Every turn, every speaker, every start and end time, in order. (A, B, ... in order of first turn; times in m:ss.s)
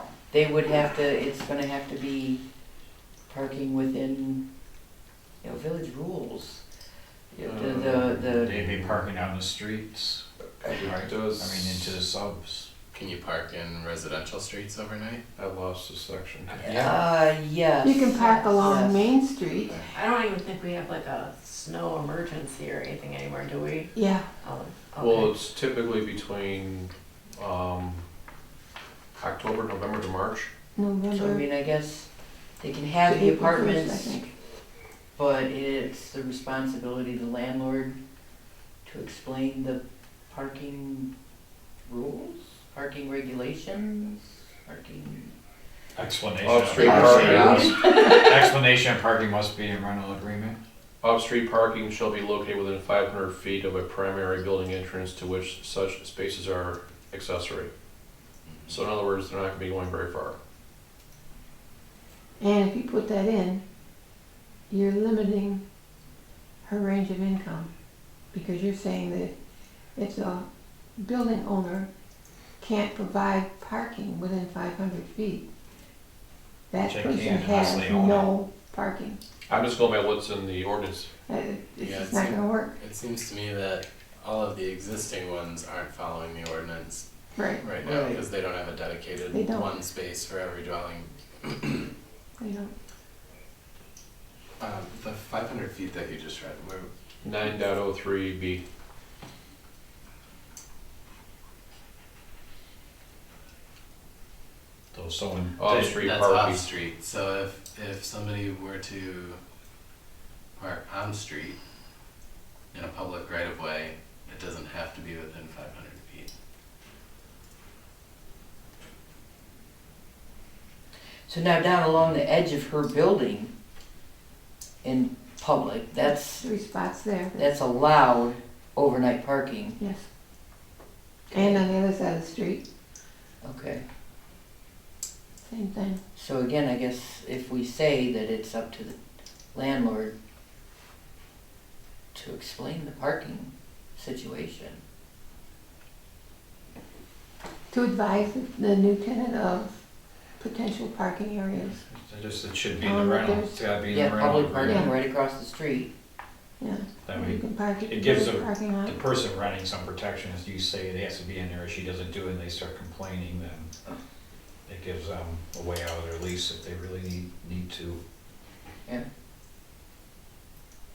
0:00.3-0:02.4 A
0:03.3-0:04.4 A
0:05.4-0:06.6 A
0:07.3-0:08.8 A
0:07.4-0:09.0 B
0:07.8-0:12.7 C
0:10.7-0:12.0 B
0:12.9-0:15.2 D
0:15.4-0:16.6 B
0:16.5-0:17.0 C
0:16.6-0:19.1 A
0:17.8-0:19.8 E
0:19.8-0:25.3 F
0:23.9-0:24.3 E
0:25.0-0:28.0 B
0:29.2-0:30.5 B
0:30.8-0:31.4 E
0:31.1-0:32.1 A
0:32.6-0:34.2 A
0:33.1-0:34.3 E
0:35.2-0:38.0 A
0:38.8-0:41.1 A
0:41.9-0:45.3 A
0:46.0-0:50.6 C
0:46.4-0:47.8 B
0:46.8-0:48.4 A
0:51.0-0:57.7 B
0:58.5-0:58.7 D
0:58.7-1:00.4 B
1:02.4-1:03.6 E
1:04.7-1:05.6 E
1:06.6-1:07.7 E
1:08.3-1:09.4 E
1:10.0-1:10.5 E
1:11.0-1:11.9 E
1:12.6-1:15.5 E
1:16.7-1:19.2 E
1:16.8-1:18.3 C
1:19.5-1:21.1 B
1:21.3-1:22.8 E
1:21.8-1:27.0 D
1:27.4-1:27.7 E
1:27.6-1:31.9 D
1:27.8-1:28.2 A
1:29.3-1:29.7 E
1:32.4-1:32.7 E
1:34.6-1:36.9 D
1:37.2-1:38.6 B
1:44.9-1:45.9 C
1:45.6-1:46.6 B
1:45.7-1:49.4 D
1:50.6-1:51.6 D
1:52.7-1:56.3 D
2:01.3-2:03.5 A
2:04.8-2:06.5 A
2:06.4-2:07.5 E
2:07.4-2:09.8 A
2:09.8-2:10.1 E
2:11.3-2:11.7 A
2:11.3-2:12.6 E
2:13.4-2:13.8 A
2:15.5-2:16.0 E
2:16.2-2:19.0 A
2:19.5-2:20.1 A
2:22.1-2:24.8 A
2:27.7-2:29.8 E
2:30.4-2:31.8 E
2:31.8-2:34.8 C
2:32.8-2:33.6 E
2:33.9-2:35.9 A
2:34.6-2:34.9 E
2:36.6-2:39.0 E
2:37.0-2:43.7 C
2:44.7-2:48.0 C